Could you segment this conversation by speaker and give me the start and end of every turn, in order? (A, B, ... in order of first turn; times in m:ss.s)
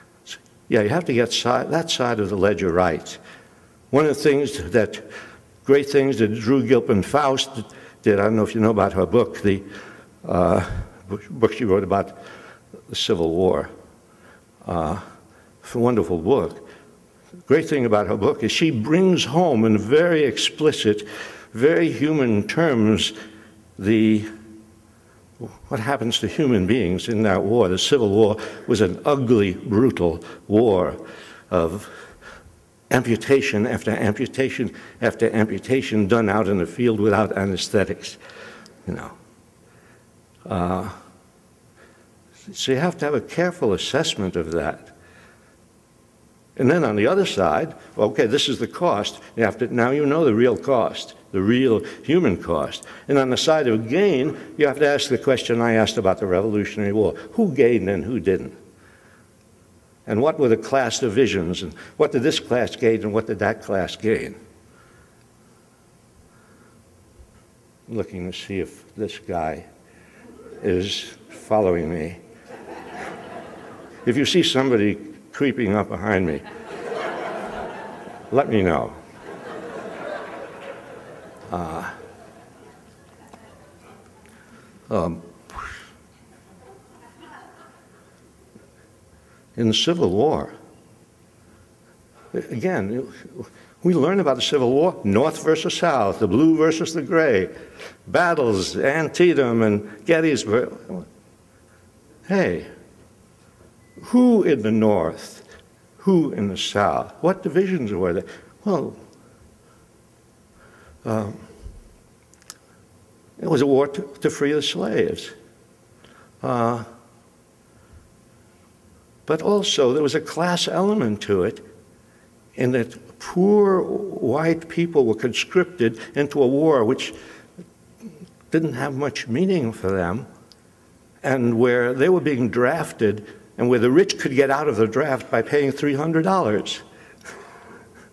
0:00.3-0:03.2 A
0:03.9-0:05.1 A
0:05.6-0:09.7 A
0:10.2-0:12.2 A
0:12.9-0:13.7 A
0:14.6-0:15.0 A
0:15.6-0:16.6 A
0:17.5-0:23.1 A
0:23.8-0:24.3 A
0:25.4-0:31.0 A
0:31.5-0:31.9 A
0:32.9-0:38.2 A
0:38.9-0:39.1 A
0:40.5-0:41.0 A
0:42.5-0:44.9 A
0:46.6-0:58.6 A
1:00.1-1:04.4 A
1:07.9-1:09.7 A
1:10.6-1:12.2 A
1:14.0-1:16.4 A
1:18.3-1:19.0 A
1:21.5-1:22.0 A
1:24.9-1:25.3 A
1:29.6-1:30.5 A
1:32.3-1:37.5 A
1:38.1-1:41.1 A
1:42.3-1:42.7 A
1:44.0-1:45.4 A
1:46.0-1:49.0 A
1:51.0-1:51.4 A
1:53.4-1:55.3 A
1:56.4-1:56.9 A
1:59.3-2:01.6 A
2:02.6-2:07.1 A
2:08.5-2:10.3 A
2:11.2-2:16.8 A